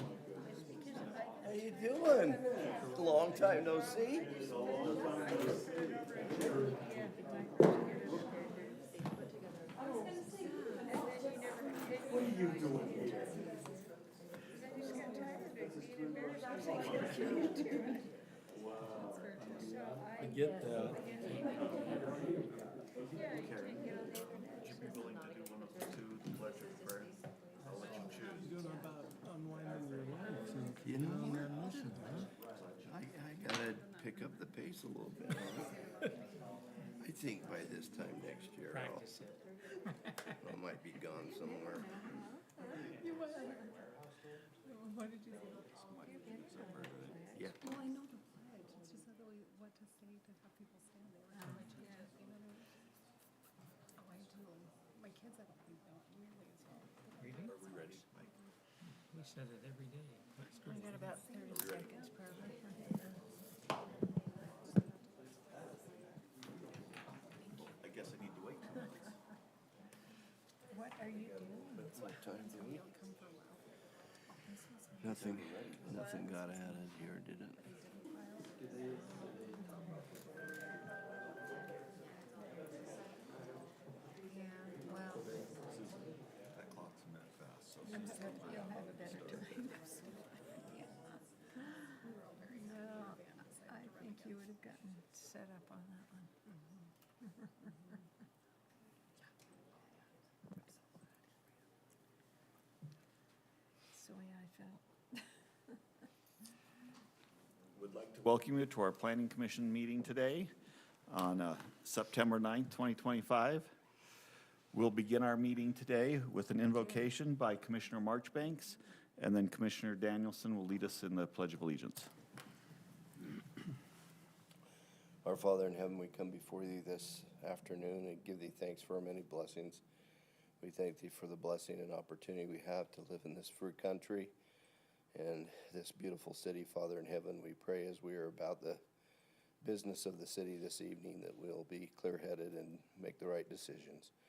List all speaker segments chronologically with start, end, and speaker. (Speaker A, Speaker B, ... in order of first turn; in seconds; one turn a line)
Speaker A: 0.4-5.4
Speaker B: 1.4-4.4
Speaker C: 4.7-5.1
Speaker D: 4.8-7.1
Speaker A: 6.6-8.8
Speaker D: 10.4-10.9
Speaker A: 10.8-13.7
Speaker A: 14.5-18.1
Speaker D: 14.9-15.5
Speaker D: 18.8-19.8
Speaker A: 19.6-22.2
Speaker E: 21.2-22.5
Speaker C: 23.2-30.3
Speaker A: 23.9-24.7
Speaker B: 30.8-32.2
Speaker D: 31.4-32.3
Speaker B: 32.8-35.8
Speaker D: 33.8-34.0
Speaker B: 37.0-39.1
Speaker E: 38.7-40.3
Speaker B: 40.4-42.1
Speaker A: 41.3-43.0
Speaker D: 42.8-43.8
Speaker D: 44.6-45.5
Speaker C: 45.8-47.3
Speaker A: 46.0-47.6
Speaker B: 47.3-47.6
Speaker D: 47.6-52.7
Speaker D: 54.0-58.0
Speaker E: 57.2-57.5
Speaker C: 57.2-58.3
Speaker E: 58.9-61.2
Speaker A: 60.7-63.2
Speaker C: 61.5-62.3
Speaker D: 65.5-65.8
Speaker C: 67.5-69.1
Speaker A: 70.7-72.0
Speaker B: 71.7-72.8
Speaker D: 71.9-73.7
Speaker B: 75.0-77.6
Speaker D: 78.0-78.5
Speaker A: 79.6-80.0
Speaker A: 84.3-85.4
Speaker C: 85.7-89.5
Speaker A: 87.9-92.0
Speaker D: 87.9-89.0
Speaker D: 92.0-94.4
Speaker A: 92.6-96.3
Speaker A: 103.9-105.2
Speaker C: 107.8-110.5
Speaker C: 111.1-113.7
Speaker C: 114.7-122.1
Speaker B: 125.2-129.8
Speaker B: 130.6-134.3
Speaker B: 135.1-138.8
Speaker B: 139.6-144.1